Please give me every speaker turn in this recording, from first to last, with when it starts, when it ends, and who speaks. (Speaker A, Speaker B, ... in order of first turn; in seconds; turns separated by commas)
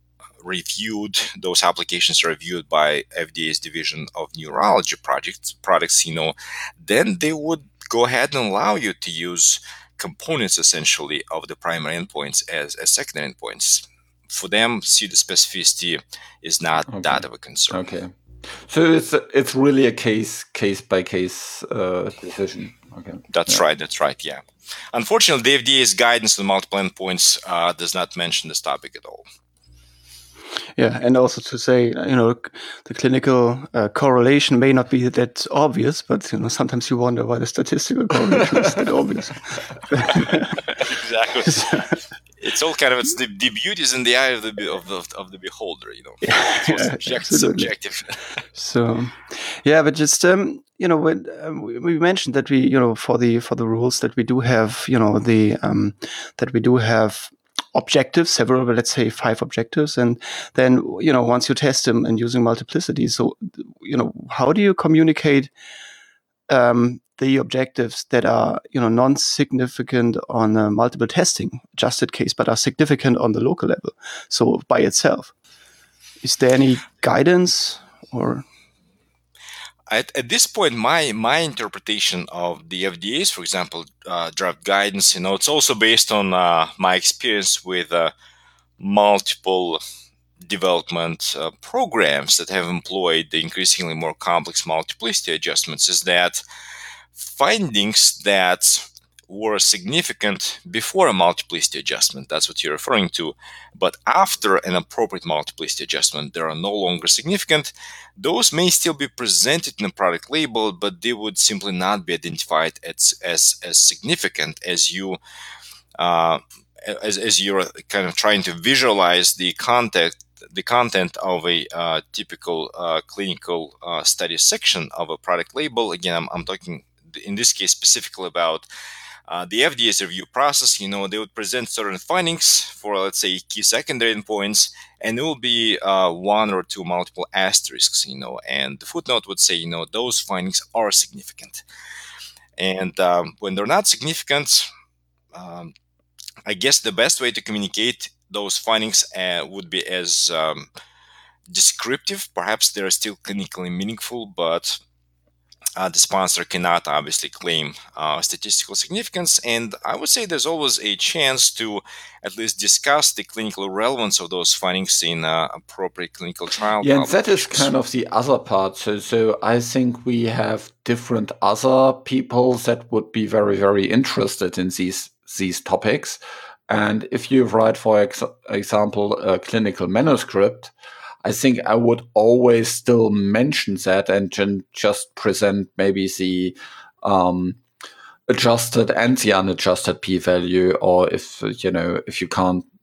Speaker A: 0.4-17.8, Speaker B: 16.9-23.6, Speaker A: 23.3-29.2, Speaker C: 30.8-40.7, Speaker A: 40.1-48.4, Speaker C: 41.4-42.0, Speaker C: 46.2-47.7, Speaker C: 48.5-65.5, Speaker C: 66.5-75.3, Speaker C: 76.2-78.5, Speaker A: 79.9-88.1, Speaker A: 88.8-89.8, Speaker A: 90.4-96.4, Speaker A: 97.1-115.2, Speaker A: 116.0-128.7, Speaker A: 129.3-141.6, Speaker A: 142.6-144.7, Speaker A: 145.3-145.7, Speaker A: 146.5-150.7, Speaker A: 151.5-154.8, Speaker A: 155.8-167.7, Speaker B: 166.8-180.7, Speaker B: 181.2-187.6, Speaker B: 188.3-192.7